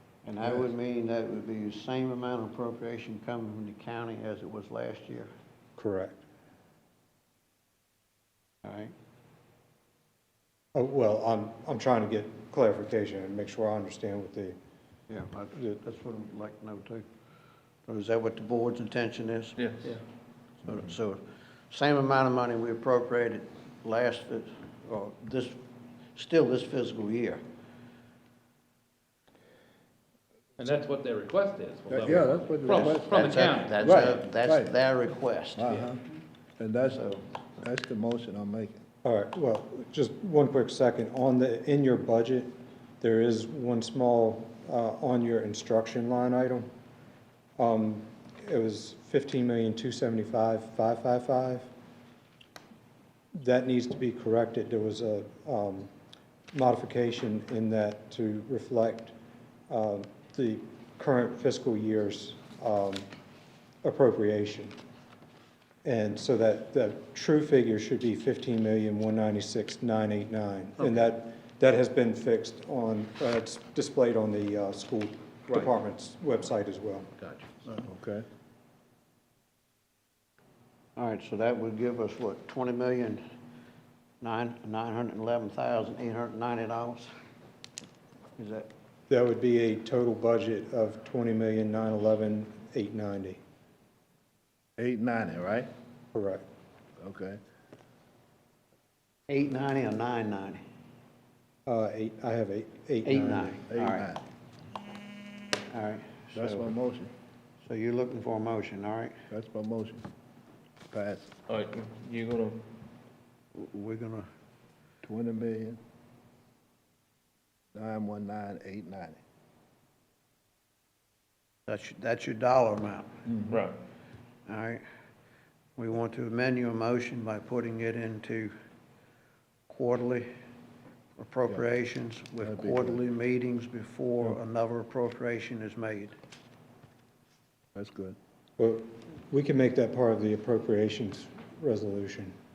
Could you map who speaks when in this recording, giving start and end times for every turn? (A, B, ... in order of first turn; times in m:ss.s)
0:00.2-0:05.3 A
0:05.8-0:06.2 B
0:08.6-0:08.9 A
0:10.7-0:14.6 B
0:15.1-0:17.1 A
0:15.5-0:15.8 B
0:17.8-0:20.0 A
0:20.6-0:25.6 A
0:26.1-0:27.4 A
0:30.6-0:34.2 C
0:31.9-0:33.2 D
0:32.7-0:35.8 A
0:33.8-0:34.7 D
0:35.6-0:36.0 D
0:36.6-0:37.0 D
0:36.8-0:37.2 A
0:37.6-0:38.8 D
0:39.0-0:46.7 B
0:47.6-0:51.7 B
0:53.3-0:55.9 B
0:56.5-0:59.1 B
0:59.7-1:03.1 B
1:03.8-1:04.7 B
1:05.8-1:17.1 B
1:17.2-1:17.6 C
1:17.7-1:18.2 D
1:21.0-1:23.2 A
1:24.2-1:27.1 A
1:28.4-1:28.7 A
1:29.1-1:33.4 B
1:34.8-1:35.7 D
1:36.1-1:36.4 B
1:37.0-1:37.4 D
1:39.3-1:40.6 A
1:41.7-1:43.6 B
1:43.0-1:44.1 A
1:43.7-1:44.2 D
1:45.7-1:46.7 A
1:46.3-1:47.1 D
1:47.6-1:49.2 A
1:49.3-1:50.0 D
1:50.9-1:51.3 D
1:51.5-1:52.6 C
1:53.5-1:54.3 A
1:55.0-1:55.8 D
1:57.7-1:59.2 D
2:01.7-2:03.2 A
2:03.3-2:03.6 D
2:03.5-2:03.7 C
2:04.5-2:04.8 A
2:05.8-2:08.5 A
2:09.7-2:10.3 A
2:11.2-2:16.1 A
2:12.4-2:13.0 D
2:17.7-2:18.2 D
2:18.6-2:22.3 B